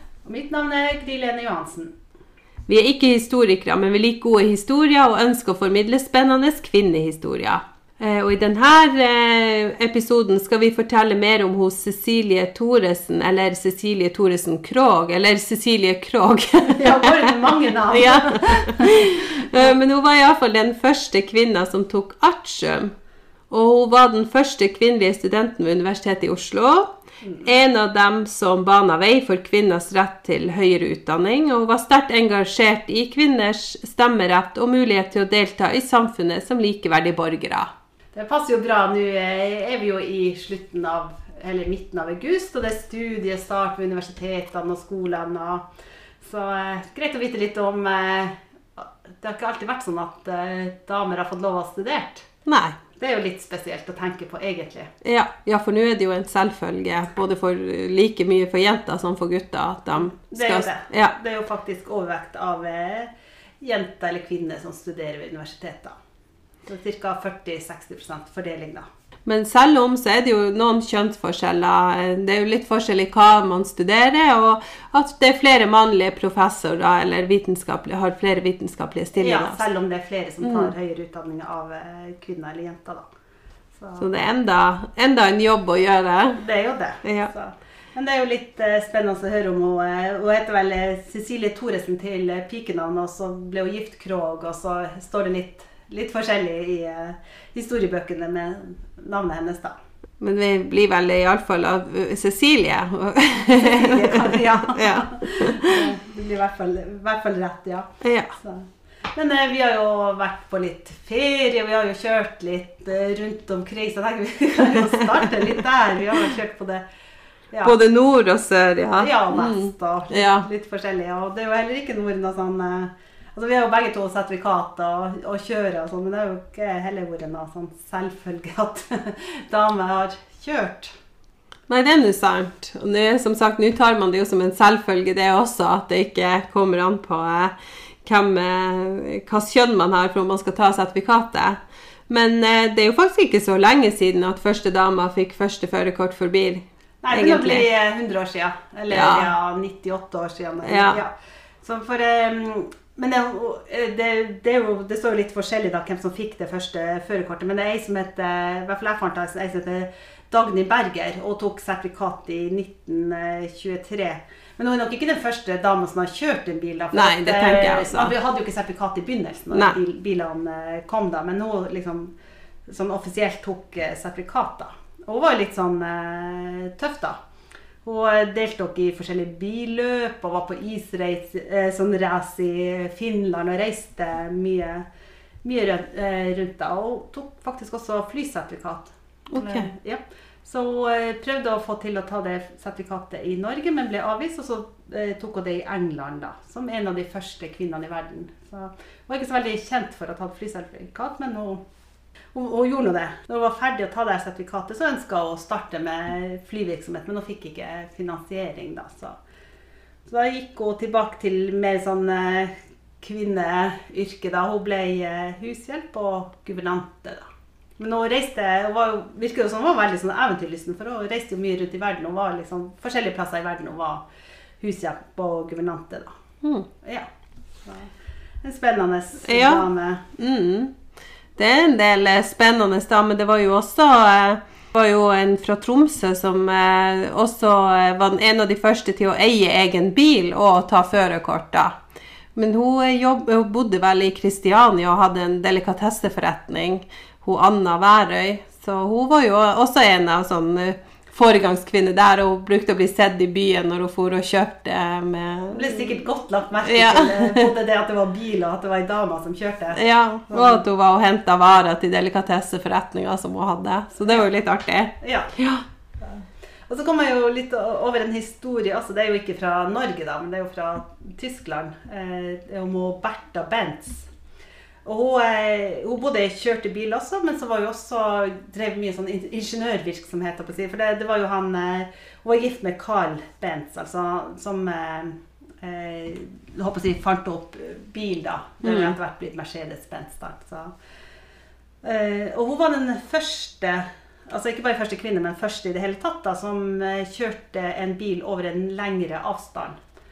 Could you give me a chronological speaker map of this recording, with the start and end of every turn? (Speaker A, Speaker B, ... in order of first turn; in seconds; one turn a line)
Speaker A: 0.2-1.9
Speaker B: 2.7-22.9
Speaker A: 16.7-19.7
Speaker B: 23.5-37.7
Speaker A: 38.1-45.7
Speaker A: 46.2-52.3
Speaker B: 52.5-52.8
Speaker A: 53.0-54.9
Speaker B: 55.0-61.1
Speaker A: 60.3-66.0
Speaker A: 66.7-68.9
Speaker B: 69.3-79.6
Speaker A: 79.2-83.0
Speaker B: 80.4-80.7
Speaker A: 83.8-84.1
Speaker B: 84.0-86.4
Speaker A: 86.4-99.8
Speaker B: 87.0-87.3
Speaker B: 100.2-105.9
Speaker A: 103.5-116.8
Speaker B: 108.0-108.3
Speaker A: 117.5-117.8
Speaker B: 117.6-120.5
Speaker A: 119.0-130.9
Speaker B: 131.7-141.6
Speaker B: 142.1-147.7
Speaker A: 147.0-151.1
Speaker B: 148.9-149.3
Speaker B: 150.6-151.0
Speaker A: 151.6-172.1
Speaker B: 166.9-168.1
Speaker B: 169.5-169.8
Speaker A: 172.7-177.2
Speaker A: 177.8-184.9
Speaker A: 185.4-201.6
Speaker B: 189.3-189.7
Speaker A: 202.3-209.2
Speaker A: 210.1-217.3
Speaker A: 217.8-224.0
Speaker A: 224.6-226.2
Speaker A: 226.8-227.1
Speaker A: 227.7-227.9
Speaker A: 228.4-230.0
Speaker B: 229.2-229.7
Speaker B: 230.2-230.8
Speaker B: 231.4-241.7
Speaker B: 242.3-255.9
Speaker A: 255.5-260.6
Speaker B: 256.7-257.5
Speaker B: 259.7-265.6
Speaker A: 265.0-265.3
Speaker A: 266.0-274.1
Speaker A: 274.9-290.7
Speaker B: 288.6-288.9
Speaker A: 291.8-299.8